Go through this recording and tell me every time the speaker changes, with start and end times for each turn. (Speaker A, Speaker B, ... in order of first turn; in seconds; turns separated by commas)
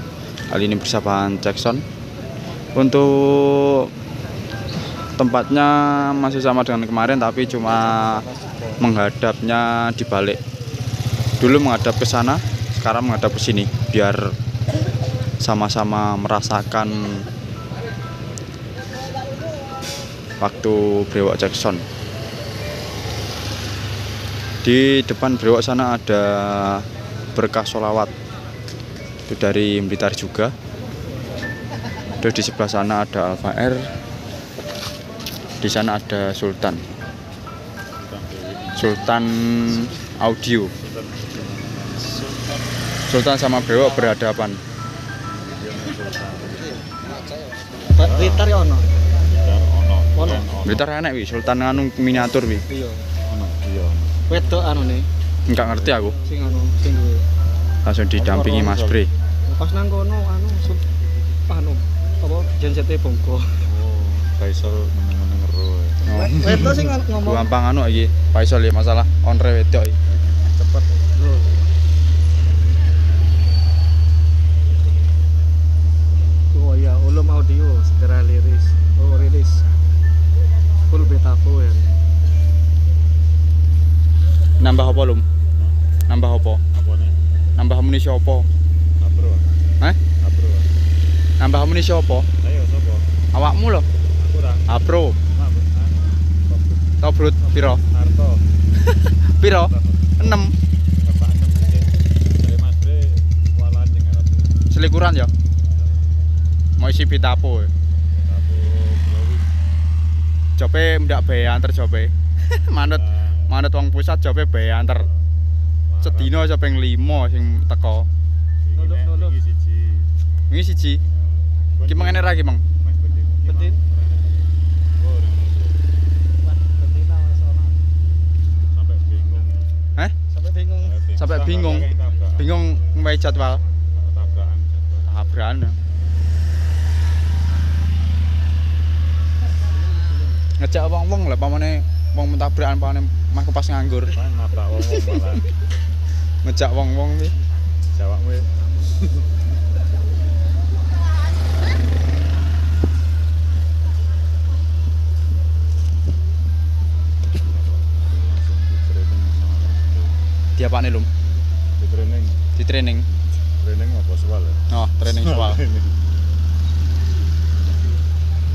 Speaker A: 0.5-1.8, Speaker A: 2.7-3.9, Speaker A: 5.2-8.2, Speaker A: 8.8-10.4, Speaker A: 11.4-14.2, Speaker A: 15.4-17.3, Speaker A: 20.4-21.8, Speaker A: 24.6-28.1, Speaker A: 29.3-30.5, Speaker A: 32.2-33.8, Speaker A: 35.6-36.8, Speaker B: 38.0-39.0, Speaker A: 38.8-40.7, Speaker B: 40.8-42.5, Speaker A: 43.1-44.6, Speaker B: 45.4-46.8, Speaker B: 47.9-48.5, Speaker C: 47.9-48.9, Speaker B: 49.3-50.8, Speaker C: 50.2-50.5, Speaker A: 50.6-52.6, Speaker C: 52.7-53.0, Speaker B: 53.3-54.4, Speaker C: 54.3-55.1, Speaker A: 55.5-56.2, Speaker C: 56.2-57.2, Speaker A: 57.8-59.1, Speaker B: 58.1-59.0, Speaker C: 59.5-60.8, Speaker C: 61.5-63.5, Speaker B: 63.6-66.9, Speaker A: 66.1-66.6, Speaker C: 66.1-67.5, Speaker A: 67.1-69.9, Speaker B: 70.3-71.0, Speaker C: 71.2-71.6, Speaker C: 76.5-79.6, Speaker C: 80.9-81.9, Speaker A: 84.6-85.2, Speaker A: 86.1-86.6, Speaker B: 86.7-87.2, Speaker A: 87.5-88.5, Speaker B: 89.0-89.5, Speaker B: 90.2-90.7, Speaker A: 91.4-92.3, Speaker B: 92.4-93.0, Speaker A: 93.3-93.8, Speaker B: 94.2-94.7, Speaker A: 94.7-95.2, Speaker B: 95.3-96.8, Speaker A: 97.0-97.8, Speaker B: 97.8-98.4, Speaker A: 98.8-100.5, Speaker B: 99.7-100.5, Speaker B: 101.0-104.6, Speaker A: 104.7-105.3, Speaker A: 106.8-107.7, Speaker B: 108.2-109.5, Speaker A: 110.6-115.1, Speaker B: 113.1-113.5, Speaker B: 115.9-116.4, Speaker A: 116.0-118.1, Speaker B: 118.6-120.1, Speaker C: 118.8-119.3, Speaker A: 120.5-121.0, Speaker B: 121.3-124.3, Speaker A: 121.8-122.6, Speaker B: 125.0-125.8, Speaker C: 126.6-127.8, Speaker B: 128.7-129.7, Speaker C: 130.3-130.9, Speaker B: 130.8-132.6, Speaker A: 131.2-133.6, Speaker B: 133.9-135.1, Speaker A: 135.1-135.8, Speaker A: 140.6-144.2, Speaker B: 144.1-145.5, Speaker A: 146.4-147.3, Speaker B: 147.9-148.5, Speaker B: 157.3-160.2, Speaker A: 160.6-161.1, Speaker B: 161.8-162.4, Speaker A: 162.6-163.1, Speaker B: 163.4-164.7, Speaker A: 164.7-165.6, Speaker B: 165.2-165.9